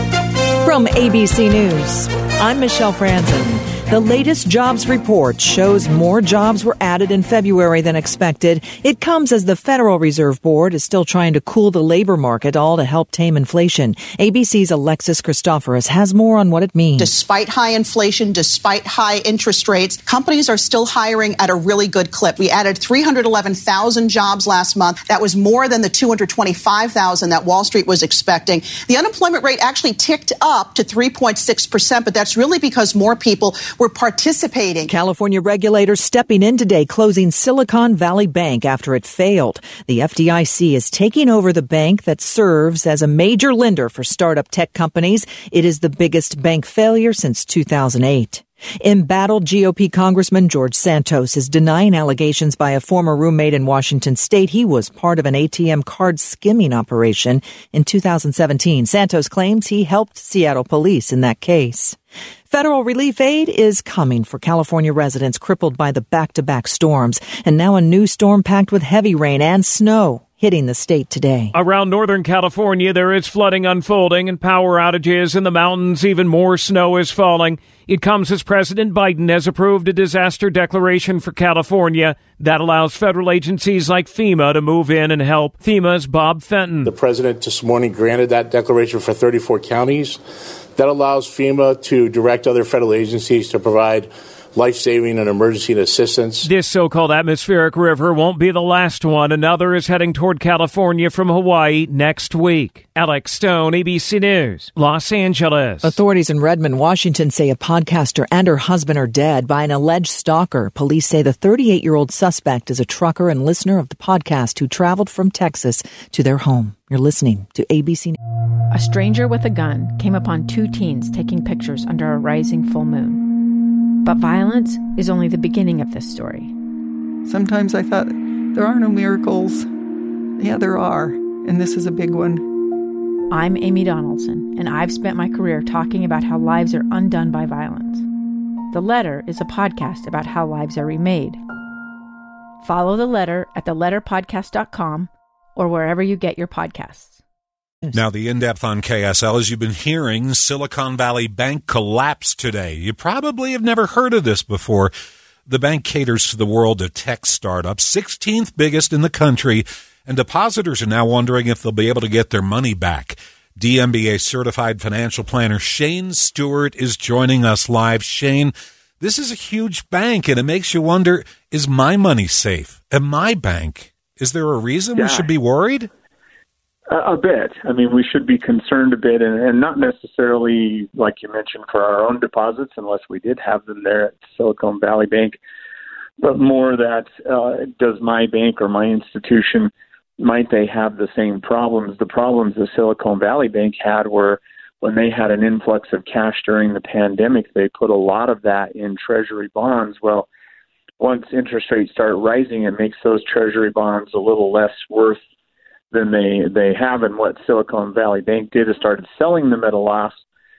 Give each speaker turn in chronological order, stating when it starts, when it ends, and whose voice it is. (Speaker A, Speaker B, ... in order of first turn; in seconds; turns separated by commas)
Speaker A: 0.6-17.1, Speaker B: 17.0-34.9, Speaker A: 34.9-62.0, Speaker A: 62.5-71.5, Speaker C: 71.5-86.9, Speaker D: 86.8-90.2, Speaker D: 90.8-96.5, Speaker C: 96.4-106.0, Speaker A: 105.8-118.2, Speaker E: 118.7-123.2, Speaker E: 124.0-126.5, Speaker F: 127.2-129.7, Speaker F: 130.4-132.4, Speaker E: 133.3-138.0, Speaker E: 138.7-141.4, Speaker E: 142.6-147.2, Speaker G: 147.9-154.9, Speaker G: 155.5-175.9, Speaker H: 174.9-175.3, Speaker H: 176.9-185.4, Speaker H: 186.2-200.3, Speaker H: 201.0-205.2, Speaker H: 205.9-210.2